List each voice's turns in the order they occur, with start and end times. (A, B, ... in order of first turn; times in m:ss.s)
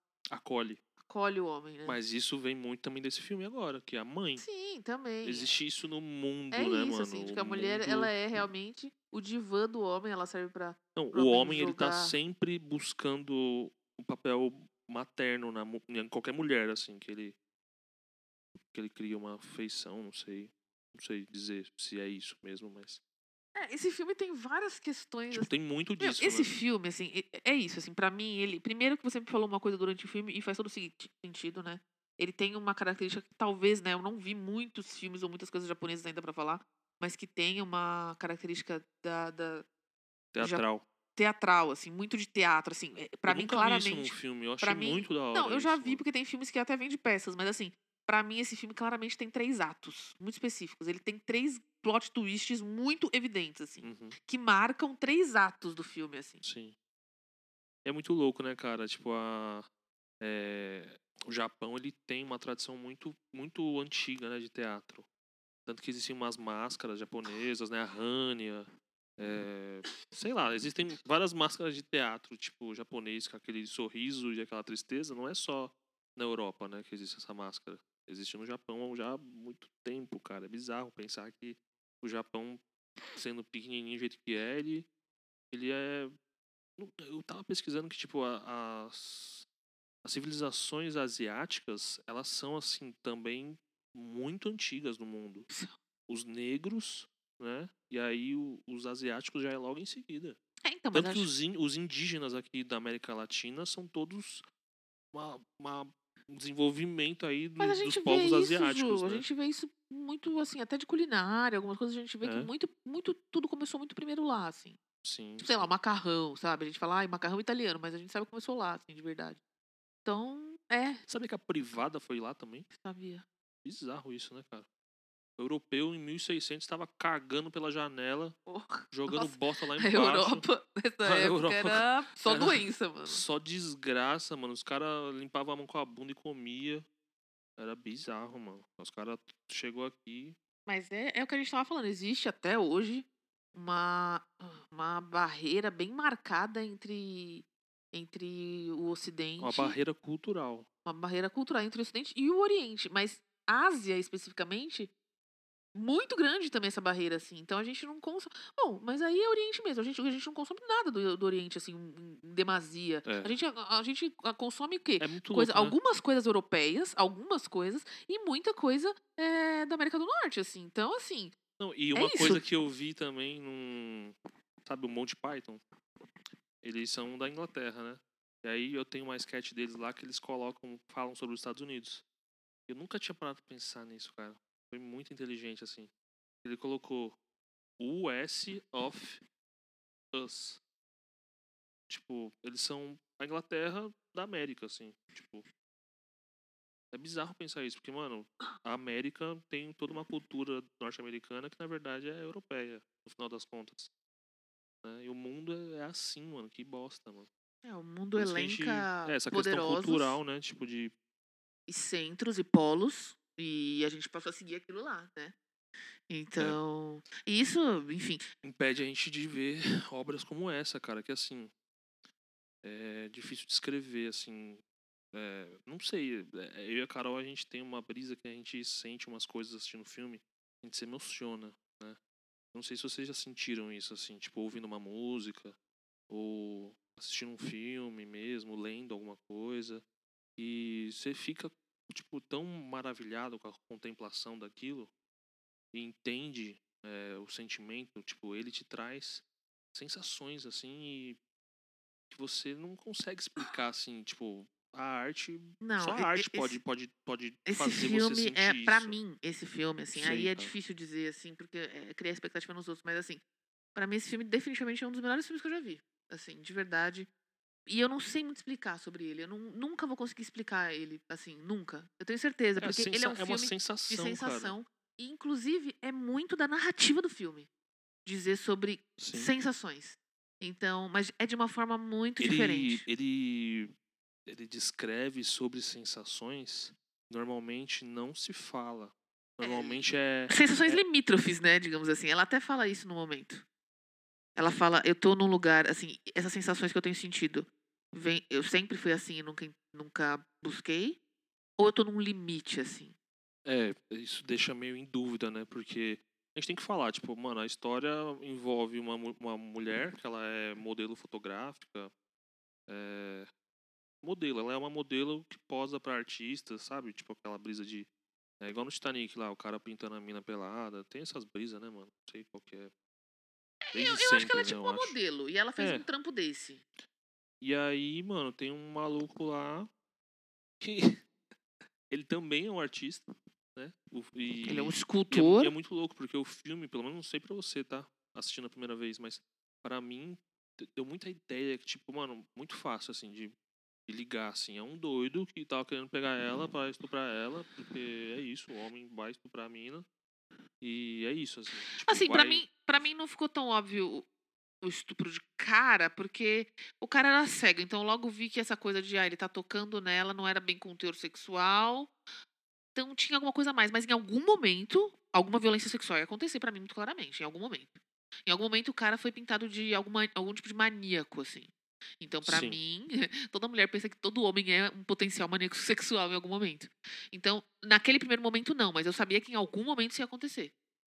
0:00.3-0:00.8 A
0:01.0-0:02.0 B
0:01.8-0:04.4 A
0:04.4-0:05.6 B
0:05.2-0:08.4 A
0:06.5-0:12.1 B
0:11.0-0:17.4 A
0:18.6-0:23.0 A
0:23.5-0:39.6 B
0:25.3-0:26.5 A
0:40.3-0:40.8 A
0:41.2-0:56.4 B
0:43.2-0:46.0 A
0:53.8-0:54.2 A
0:56.4-0:56.7 A
0:57.8-0:59.6 A
1:00.2-1:05.0 A
1:05.6-1:22.6 A
1:23.1-1:24.9 A
1:25.5-1:26.1 A
1:26.8-1:29.4 A
1:30.0-1:35.5 A
1:36.1-1:40.4 A
1:40.6-1:41.3 B
1:40.9-1:44.4 A
1:45.1-1:49.2 A
1:47.6-1:54.8 B
1:52.2-1:52.5 A
1:55.0-1:55.7 A
1:55.4-1:59.4 B
2:00.0-2:01.0 B
2:01.1-2:02.7 A
2:02.7-2:03.2 B
2:03.6-2:04.6 A
2:05.4-2:08.4 A
2:08.4-2:13.2 B
2:08.9-2:10.4 A
2:11.0-2:16.8 A
2:17.6-2:20.4 A
2:20.6-2:29.8 B
2:29.4-2:30.7 A
2:30.8-2:34.9 B
2:35.7-2:51.3 B
2:43.0-2:43.4 A
2:45.0-2:45.8 A
2:51.6-2:55.6 A
2:51.9-2:52.4 B
2:56.6-3:02.0 A
3:02.7-3:05.9 A
3:06.4-3:07.2 A
3:07.8-3:09.2 A
3:10.1-3:10.6 A
3:11.9-3:15.4 A
3:16.9-3:23.9 A
3:24.8-3:27.3 A
3:27.6-3:30.2 B
3:28.2-3:30.9 A
3:31.7-3:35.3 B
3:36.1-3:38.2 B
3:38.4-3:41.5 A
3:42.6-3:44.6 A
3:45.1-3:52.0 A
3:52.5-3:55.6 A
3:56.1-3:59.8 A
4:00.4-4:04.9 A
4:05.7-4:11.2 A
4:12.1-4:19.0 A
4:15.6-4:16.6 B
4:17.4-4:23.2 B
4:19.9-4:20.5 A
4:23.7-4:27.1 B
4:27.6-4:37.5 B
4:32.6-4:34.5 A
4:38.0-4:42.8 B
4:39.0-4:39.3 A
4:42.2-4:43.7 A
4:44.2-4:50.8 A
4:49.4-4:53.4 B
4:54.4-5:01.0 B
5:01.6-5:02.9 B
5:03.4-5:11.9 A
5:12.7-5:13.3 A
5:14.0-5:17.9 A
5:18.4-5:22.7 A
5:23.6-5:26.6 B
5:23.7-5:24.9 A
5:25.6-5:25.8 A
5:27.4-5:29.7 A
5:30.6-5:31.0 A
5:31.9-5:43.3 A
5:34.5-5:35.5 B
5:43.9-5:49.8 A
5:50.6-5:52.4 A
5:51.8-5:54.0 B
5:54.6-6:01.9 B
6:02.7-6:20.5 B
6:12.2-6:12.6 A